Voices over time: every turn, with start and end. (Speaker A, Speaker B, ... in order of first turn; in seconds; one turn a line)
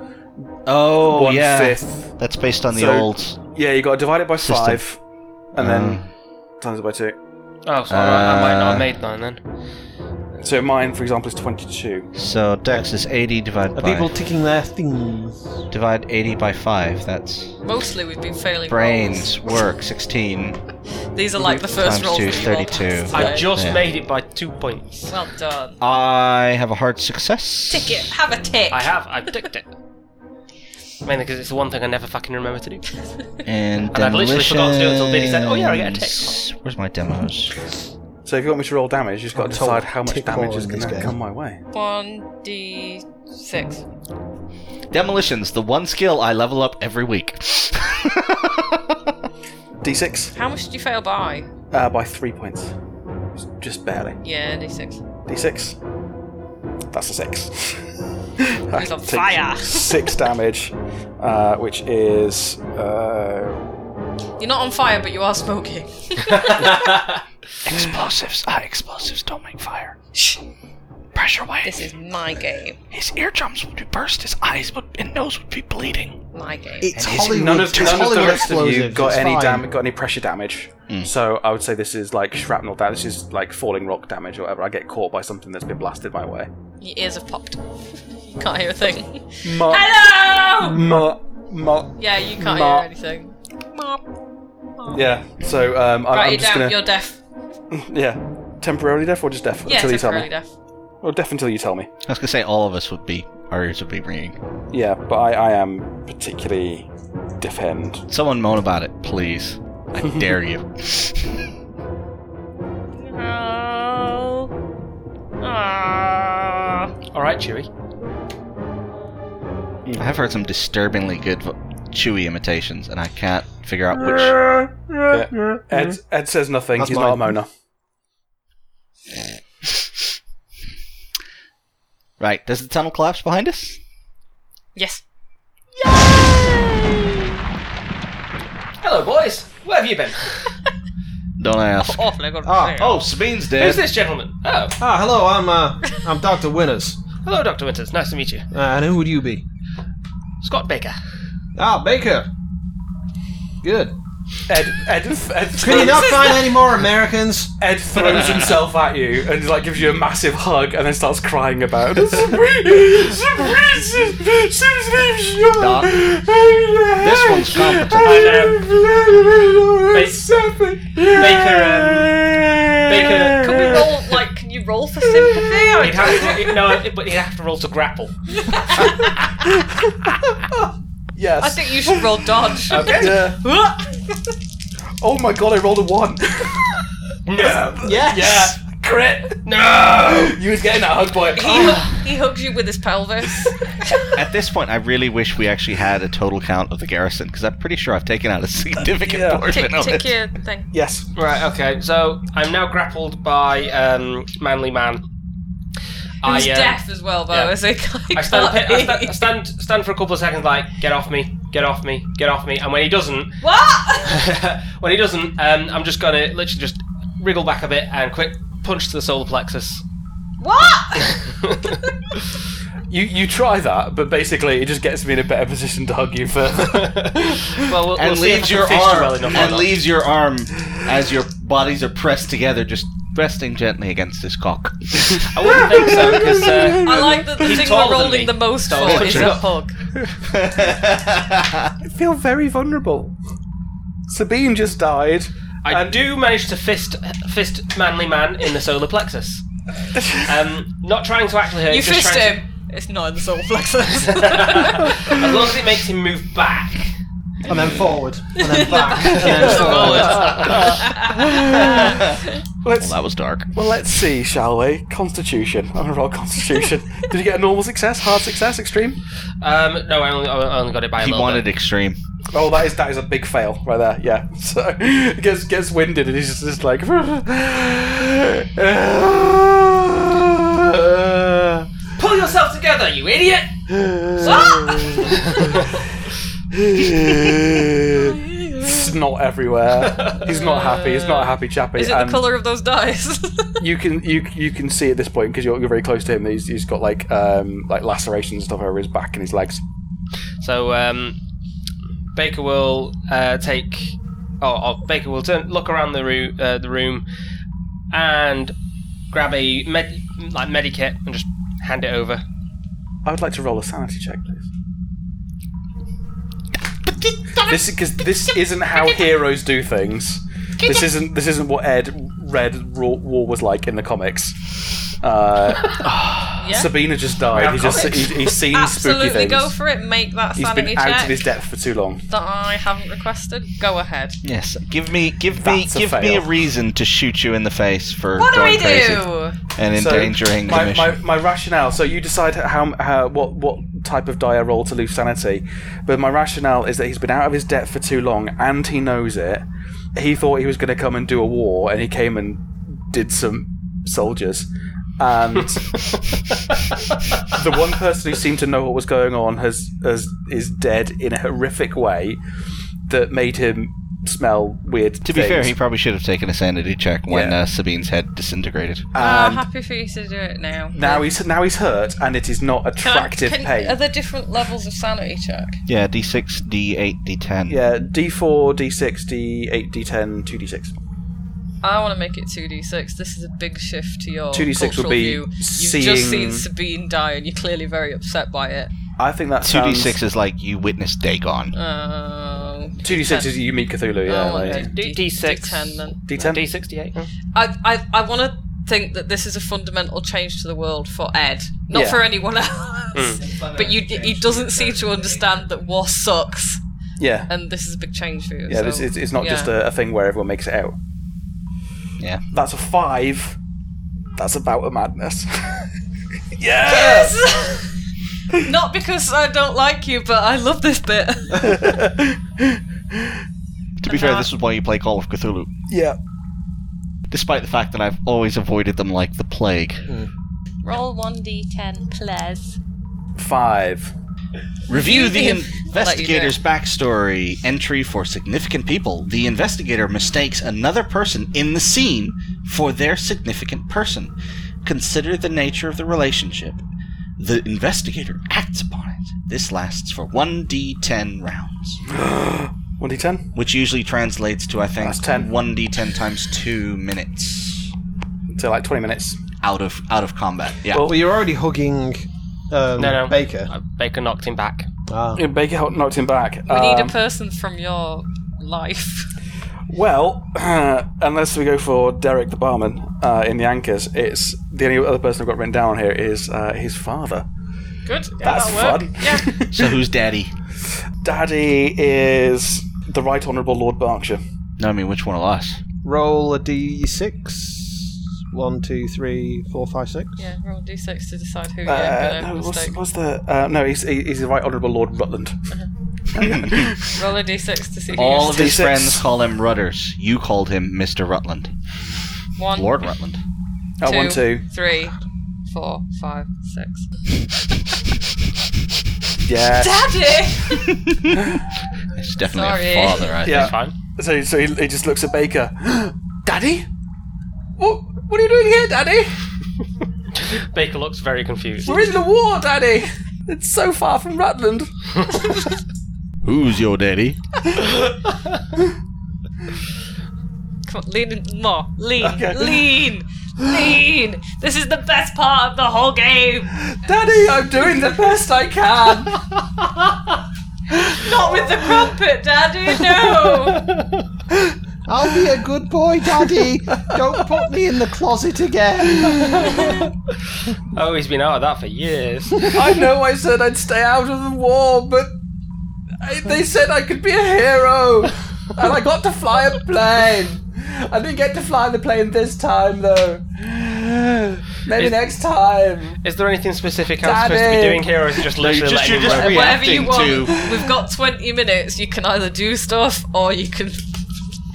Speaker A: 0.7-3.4
Speaker B: 1.0-2.1
Speaker B: 2.7-5.0
Speaker A: 4.4-4.8
Speaker B: 5.5-6.0
Speaker A: 5.6-6.1
Speaker B: 6.6-7.2
Speaker C: 7.7-9.4
Speaker A: 7.9-8.9
Speaker B: 10.4-12.1
Speaker A: 12.2-14.1
Speaker D: 13.8-15.6
Speaker A: 15.7-17.6
Speaker E: 17.6-19.4
Speaker A: 18.7-20.6
Speaker E: 21.1-23.5
Speaker A: 21.7-23.8
Speaker C: 23.1-25.1
Speaker E: 25.1-25.8
Speaker A: 25.8-28.1
Speaker E: 27.7-28.9
Speaker C: 28.7-29.7
Speaker C: 31.0-32.9
Speaker A: 33.5-37.5
Speaker C: 33.9-36.4
Speaker B: 38.2-41.6
Speaker D: 39.3-41.1
Speaker E: 41.7-43.8
Speaker A: 44.9-49.1
Speaker B: 49.8-50.3
Speaker E: 50.3-51.5
Speaker B: 51.7-52.7
Speaker B: 53.5-54.2
Speaker E: 54.2-55.0
Speaker B: 55.3-55.8
Speaker B: 56.9-57.8
Speaker B: 58.4-63.7
Speaker E: 58.7-60.1
Speaker E: 64.4-66.7
Speaker C: 66.3-67.2
Speaker A: 67.7-70.0
Speaker A: 71.2-71.9
Speaker E: 71.6-72.8
Speaker A: 72.9-76.2
Speaker E: 76.3-76.9
Speaker D: 76.8-79.7
Speaker A: 76.9-78.5
Speaker B: 77.2-86.5
Speaker E: 86.8-87.6
Speaker E: 88.3-91.0
Speaker B: 89.4-90.0
Speaker B: 90.6-92.9
Speaker E: 92.0-94.0
Speaker E: 94.8-95.0
Speaker B: 94.9-96.9
Speaker E: 96.1-97.2
Speaker B: 97.7-100.3
Speaker E: 99.7-100.5
Speaker B: 101.0-101.9
Speaker A: 102.1-104.4
Speaker B: 104.7-106.9
Speaker B: 107.4-108.0
Speaker A: 108.1-111.5
Speaker E: 113.0-114.5
Speaker E: 115.4-116.9
Speaker C: 117.1-117.7
Speaker A: 120.0-124.4
Speaker D: 124.0-126.0
Speaker B: 125.1-127.5
Speaker D: 126.8-127.4
Speaker A: 132.2-133.8
Speaker E: 134.8-135.0
Speaker C: 138.8-140.6
Speaker A: 141.4-142.1
Speaker E: 141.8-143.1
Speaker D: 142.4-142.8
Speaker A: 142.7-143.8
Speaker C: 143.6-144.8
Speaker D: 144.8-147.0
Speaker C: 147.2-148.5
Speaker D: 148.5-149.4
Speaker C: 150.4-151.0
Speaker D: 151.6-152.3
Speaker D: 153.6-153.9
Speaker B: 154.5-156.4
Speaker D: 155.6-157.5
Speaker E: 155.7-156.5
Speaker B: 157.6-172.1
Speaker A: 165.6-166.0
Speaker A: 167.0-168.4
Speaker C: 167.9-168.6
Speaker C: 169.9-170.3
Speaker C: 170.9-172.2
Speaker A: 172.1-173.3
Speaker C: 172.9-173.8
Speaker E: 173.4-176.4
Speaker C: 175.8-179.0
Speaker B: 175.8-176.4
Speaker E: 178.5-179.1
Speaker B: 178.8-183.4
Speaker E: 181.4-184.2
Speaker B: 185.0-186.7
Speaker C: 187.3-187.8
Speaker B: 187.3-191.9
Speaker D: 187.8-188.6
Speaker C: 189.4-190.4
Speaker E: 191.3-194.0
Speaker A: 194.1-200.1
Speaker B: 199.1-199.5
Speaker E: 199.5-200.7
Speaker B: 200.7-201.1
Speaker C: 201.2-205.0
Speaker C: 206.2-207.5
Speaker E: 206.2-209.3
Speaker C: 208.1-213.4
Speaker E: 213.4-214.3
Speaker C: 214.1-219.8
Speaker E: 220.4-221.2
Speaker C: 221.0-221.8
Speaker B: 222.9-227.7
Speaker C: 226.6-229.7
Speaker A: 227.9-236.6
Speaker C: 235.3-239.5
Speaker B: 236.6-237.2
Speaker E: 236.8-239.8
Speaker A: 238.8-239.4
Speaker A: 240.2-241.7
Speaker B: 241.8-243.2
Speaker B: 244.1-246.0
Speaker C: 245.6-249.4
Speaker B: 249.9-250.3
Speaker C: 250.3-252.4
Speaker E: 251.7-255.2
Speaker C: 254.2-256.9
Speaker A: 257.4-258.0
Speaker D: 257.5-260.6
Speaker E: 258.4-262.3
Speaker C: 259.2-260.7
Speaker B: 259.3-262.1
Speaker A: 260.4-260.7
Speaker A: 261.8-262.1
Speaker B: 262.6-262.9
Speaker A: 262.8-263.5
Speaker B: 263.5-269.0
Speaker C: 269.4-271.4
Speaker A: 271.0-272.0
Speaker B: 272.3-281.7
Speaker C: 282.0-283.6
Speaker B: 283.7-285.6
Speaker C: 284.2-285.7
Speaker E: 284.2-285.1
Speaker B: 286.5-292.3
Speaker E: 288.0-288.9
Speaker C: 289.8-290.2
Speaker E: 290.3-293.6
Speaker B: 293.6-299.6
Speaker C: 300.4-301.2
Speaker C: 302.1-307.0
Speaker C: 307.9-308.6
Speaker C: 309.1-312.2
Speaker B: 313.1-314.4
Speaker A: 316.9-317.6
Speaker B: 317.4-324.4
Speaker A: 320.6-320.9
Speaker B: 325.0-325.8
Speaker A: 325.8-326.5
Speaker E: 326.4-326.7
Speaker B: 326.5-329.5
Speaker C: 327.3-328.0
Speaker E: 327.8-331.2
Speaker B: 330.4-332.0
Speaker E: 332.1-334.2
Speaker A: 334.2-341.0
Speaker B: 335.4-336.3
Speaker E: 338.2-339.4
Speaker B: 339.7-355.8
Speaker C: 355.8-356.8
Speaker B: 357.3-362.2
Speaker B: 362.9-365.6
Speaker A: 365.0-368.9
Speaker B: 367.1-367.4
Speaker B: 368.9-369.5
Speaker E: 369.0-371.1
Speaker B: 370.7-373.8
Speaker E: 372.8-375.6
Speaker A: 375.7-377.6
Speaker B: 377.5-380.8
Speaker E: 381.6-388.7
Speaker B: 384.3-386.5
Speaker B: 389.0-390.0
Speaker A: 389.4-391.6
Speaker E: 391.5-393.3
Speaker B: 392.8-394.7
Speaker E: 394.1-396.0
Speaker C: 394.4-397.1
Speaker B: 396.1-396.4
Speaker E: 397.3-406.6
Speaker B: 401.7-402.0
Speaker C: 402.9-403.2
Speaker A: 403.2-405.5
Speaker B: 407.0-407.3
Speaker E: 407.3-409.5
Speaker B: 408.5-410.8
Speaker B: 412.3-413.4
Speaker B: 414.2-415.7
Speaker B: 416.3-417.2
Speaker E: 416.7-417.8
Speaker E: 418.3-421.8
Speaker B: 421.4-423.2
Speaker A: 423.8-425.5
Speaker E: 423.9-424.3
Speaker B: 425.7-426.0
Speaker A: 427.1-429.9
Speaker E: 430.6-432.6
Speaker B: 433.2-433.9
Speaker A: 434.7-444.1
Speaker E: 434.7-436.4
Speaker A: 444.6-446.6
Speaker A: 447.2-451.8
Speaker B: 451.9-453.3
Speaker A: 453.4-457.7
Speaker B: 454.8-455.3
Speaker B: 458.3-459.2
Speaker A: 459.4-460.9
Speaker B: 460.7-461.0
Speaker D: 460.8-463.5
Speaker C: 462.8-464.7
Speaker D: 464.9-465.2
Speaker B: 465.2-467.0
Speaker E: 466.5-469.1
Speaker B: 469.7-477.3
Speaker E: 477.9-479.3
Speaker B: 478.2-479.7
Speaker A: 479.5-480.3
Speaker B: 481.0-484.2
Speaker A: 484.6-485.6
Speaker D: 485.8-490.2
Speaker E: 490.2-492.8
Speaker B: 491.6-495.4
Speaker B: 496.1-496.9
Speaker A: 496.2-496.7
Speaker E: 496.9-498.5
Speaker A: 497.9-501.5
Speaker B: 498.1-499.0
Speaker E: 502.4-502.8
Speaker A: 502.5-503.2
Speaker B: 503.8-504.5
Speaker E: 503.9-505.0
Speaker E: 505.5-506.9
Speaker B: 509.2-510.2
Speaker E: 509.5-510.8
Speaker A: 510.5-511.2
Speaker A: 511.9-513.5
Speaker E: 512.2-513.2
Speaker C: 513.2-513.8
Speaker B: 513.2-516.7
Speaker B: 517.6-519.3
Speaker C: 520.2-521.8
Speaker B: 521.6-525.5
Speaker A: 526.2-527.2
Speaker E: 530.7-536.5
Speaker B: 532.0-532.7
Speaker B: 533.4-533.8
Speaker B: 536.5-539.3
Speaker B: 540.7-541.9
Speaker E: 541.0-543.6
Speaker C: 543.5-544.0
Speaker D: 544.9-549.7
Speaker B: 546.8-547.2
Speaker B: 548.9-549.7
Speaker C: 549.4-549.7
Speaker C: 550.7-552.5
Speaker B: 552.5-555.1
Speaker B: 556.0-566.0
Speaker C: 566.0-569.6
Speaker B: 567.0-567.9
Speaker A: 568.4-570.4
Speaker E: 569.2-574.0
Speaker B: 570.3-570.7